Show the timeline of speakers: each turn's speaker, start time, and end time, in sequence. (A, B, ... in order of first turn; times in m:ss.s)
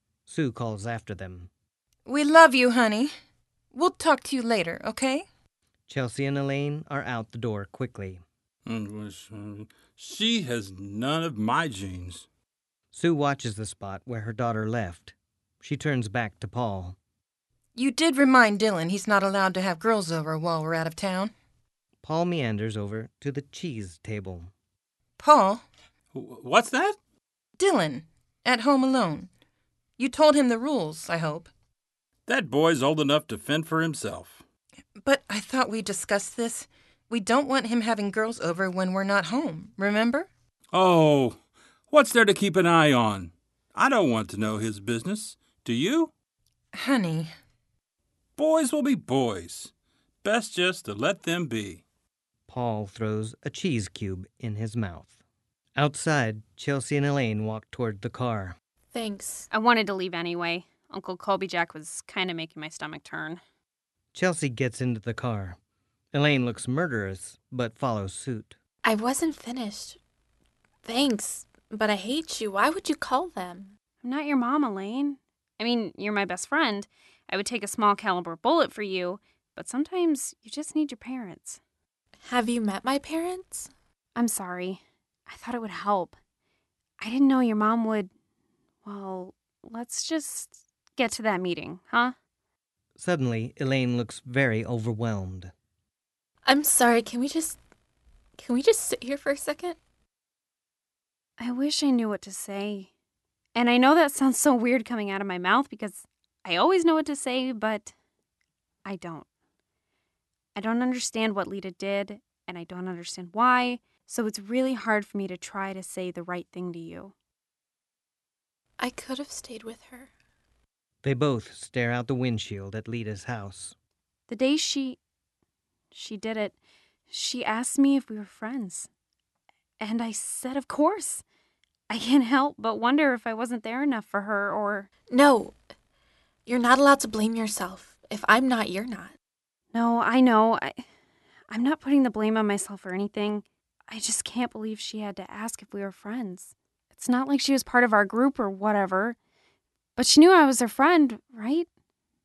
0:00.3-0:01.5 A
0:02.1-0:03.1 B
0:03.7-0:05.3 B
0:05.9-0:08.2 A
0:08.7-0:12.3 C
0:12.9-0:17.0 A
0:17.8-0:21.3 B
0:22.0-0:24.5 A
0:25.2-0:25.6 B
0:26.1-0:27.0 C
0:27.6-0:29.3 B
0:30.0-0:31.5 B
0:32.3-0:34.4 C
0:35.0-0:40.3 B
0:40.7-0:41.4 C
0:41.9-0:46.1 C
0:46.7-0:47.3 B
0:48.4-0:49.7 C
0:50.2-0:51.8 C
0:52.5-0:55.2 A
0:55.8-0:58.6 A
0:58.9-0:59.5 D
0:59.5-1:03.4 E
1:04.1-1:05.6 A
1:06.1-1:08.6 A
1:08.8-1:10.0 D
1:10.8-1:13.8 D
1:14.0-1:21.6 E
1:22.2-1:23.7 D
1:24.2-1:26.2 E
1:27.0-1:28.1 E
1:28.8-1:32.2 E
1:33.0-1:35.5 A
1:36.5-1:37.6 D
1:38.4-1:39.8 D
1:41.4-1:42.9 E
1:43.6-1:47.9 E
1:48.8-1:49.3 E
1:50.6-1:57.1 E
1:58.8-2:00.1 D
2:01.0-2:03.8 A
2:04.3-2:05.0 E
2:05.9-2:06.6 E
2:07.1-2:08.9 E
2:09.8-2:11.2 E
2:11.9-2:14.9 E
2:15.1-2:15.6 D
2:16.5-2:19.1 D
2:19.7-2:20.8 E
2:21.5-2:29.2 E
2:30.0-2:31.7 E